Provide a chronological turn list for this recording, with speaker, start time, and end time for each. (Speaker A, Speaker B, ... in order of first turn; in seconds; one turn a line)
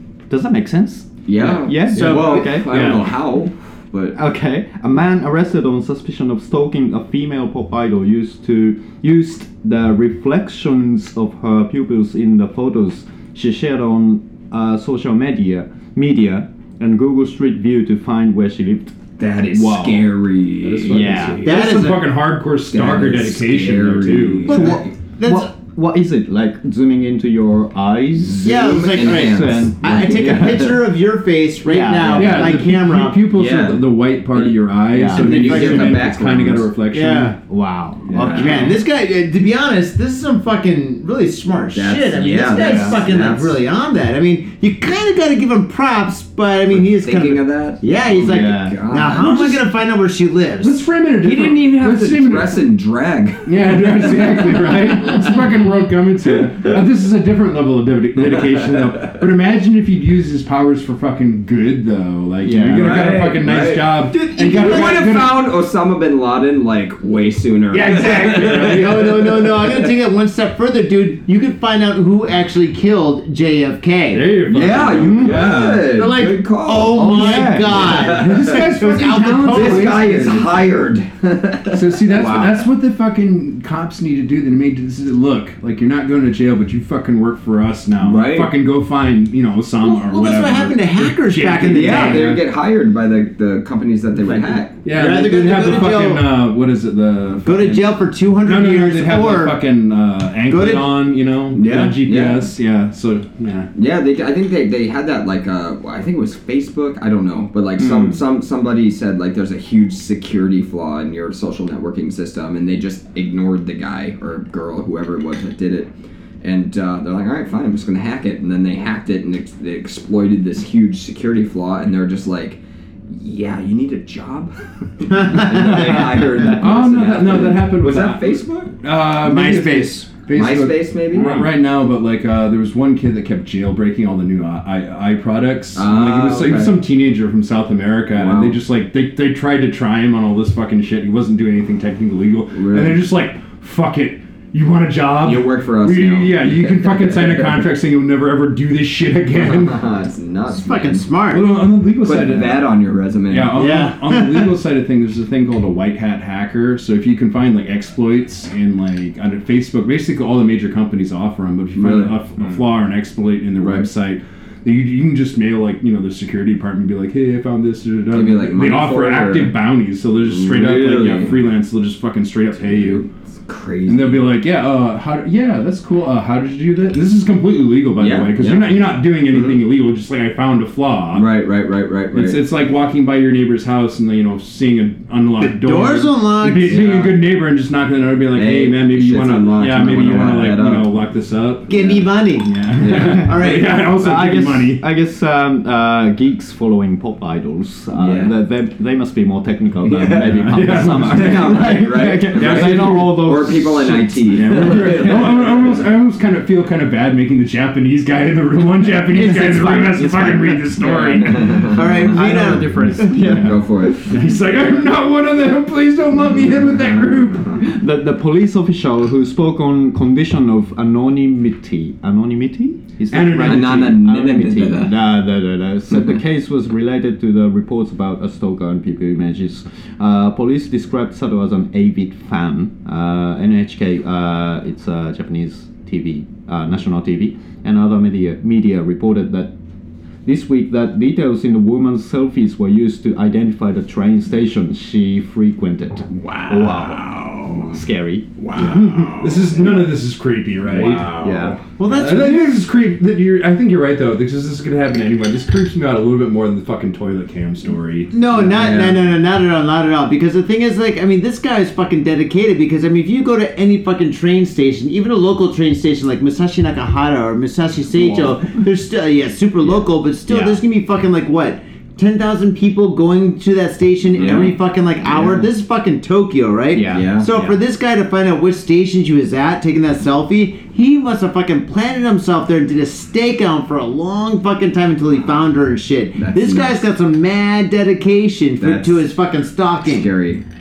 Speaker A: 0.3-2.7
Speaker B: 1.3-4.2
Speaker C: 1.9-2.5
Speaker D: 2.0-3.1
Speaker A: 4.1-18.9
Speaker B: 19.2-21.3
Speaker A: 19.5-20.1
Speaker D: 20.6-24.6
Speaker A: 20.9-21.5
Speaker C: 21.4-22.2
Speaker B: 22.7-24.9
Speaker C: 24.4-25.5
Speaker A: 24.5-30.7
Speaker B: 28.2-30.8
Speaker C: 28.4-33.2
Speaker A: 31.7-32.6
Speaker D: 32.1-37.4
Speaker B: 33.3-34.6
Speaker A: 34.9-35.7
Speaker B: 35.1-36.7
Speaker C: 35.5-36.0
Speaker C: 36.9-37.4
Speaker A: 37.5-38.7
Speaker B: 38.1-38.7
Speaker C: 38.3-50.8
Speaker B: 41.7-43.6
Speaker A: 42.6-43.0
Speaker B: 46.7-49.6
Speaker A: 48.2-48.8
Speaker D: 50.6-52.6
Speaker B: 51.2-55.1
Speaker D: 53.5-65.5
Speaker B: 58.2-59.1
Speaker A: 62.4-63.0
Speaker B: 62.7-69.9
Speaker C: 64.1-65.1
Speaker D: 67.7-69.1
Speaker C: 67.8-74.4
Speaker D: 74.1-76.0
Speaker B: 74.5-78.6
Speaker A: 75.0-75.7
Speaker C: 75.9-80.4
Speaker D: 77.0-80.5
Speaker A: 77.0-77.7
Speaker B: 79.5-82.6
Speaker D: 81.7-92.4
Speaker B: 88.0-88.5
Speaker C: 89.8-92.4
Speaker B: 91.6-94.8
Speaker D: 94.8-103.7
Speaker C: 94.8-96.3
Speaker C: 97.4-99.6
Speaker C: 100.5-101.1
Speaker B: 101.5-102.5
Speaker B: 103.8-115.9
Speaker B: 116.4-128.7
Speaker C: 125.2-125.7
Speaker D: 126.6-149.9
Speaker C: 129.2-130.1
Speaker B: 130.3-131.4
Speaker A: 131.2-131.5
Speaker B: 135.8-136.8
Speaker B: 138.1-138.6
Speaker B: 142.5-143.0
Speaker B: 145.2-147.6
Speaker B: 149.4-151.1
Speaker C: 150.5-151.5
Speaker D: 151.3-152.7
Speaker B: 152.0-153.8
Speaker D: 153.3-173.1
Speaker C: 153.6-154.5
Speaker B: 161.8-162.2
Speaker B: 163.6-163.9
Speaker B: 168.1-169.6
Speaker B: 170.2-171.4
Speaker B: 172.6-174.4
Speaker D: 173.9-181.3
Speaker B: 178.0-179.6
Speaker B: 181.1-182.4
Speaker D: 182.1-194.8
Speaker C: 185.4-187.0
Speaker B: 186.7-187.2
Speaker B: 188.3-191.1
Speaker C: 191.7-193.9
Speaker B: 192.8-193.4
Speaker A: 193.9-205.1
Speaker B: 198.0-198.3
Speaker B: 199.8-205.8
Speaker D: 200.2-203.3
Speaker D: 204.3-211.8
Speaker A: 209.1-213.6
Speaker B: 210.8-211.9
Speaker C: 211.7-213.3
Speaker D: 212.8-217.6
Speaker B: 213.2-214.1
Speaker A: 217.6-239.5
Speaker D: 223.1-224.0
Speaker B: 223.4-225.1
Speaker A: 240.2-248.3
Speaker B: 246.1-247.8
Speaker B: 248.4-249.9
Speaker D: 248.6-251.1
Speaker B: 250.6-251.6
Speaker A: 251.1-251.6
Speaker C: 251.8-252.6
Speaker D: 251.8-258.1
Speaker C: 258.1-290.1
Speaker B: 258.5-259.0
Speaker A: 270.3-270.6
Speaker B: 274.2-274.5
Speaker A: 275.1-275.5
Speaker A: 276.7-277.5
Speaker B: 276.9-277.4
Speaker B: 286.2-286.8
Speaker B: 288.6-289.1
Speaker B: 289.8-290.4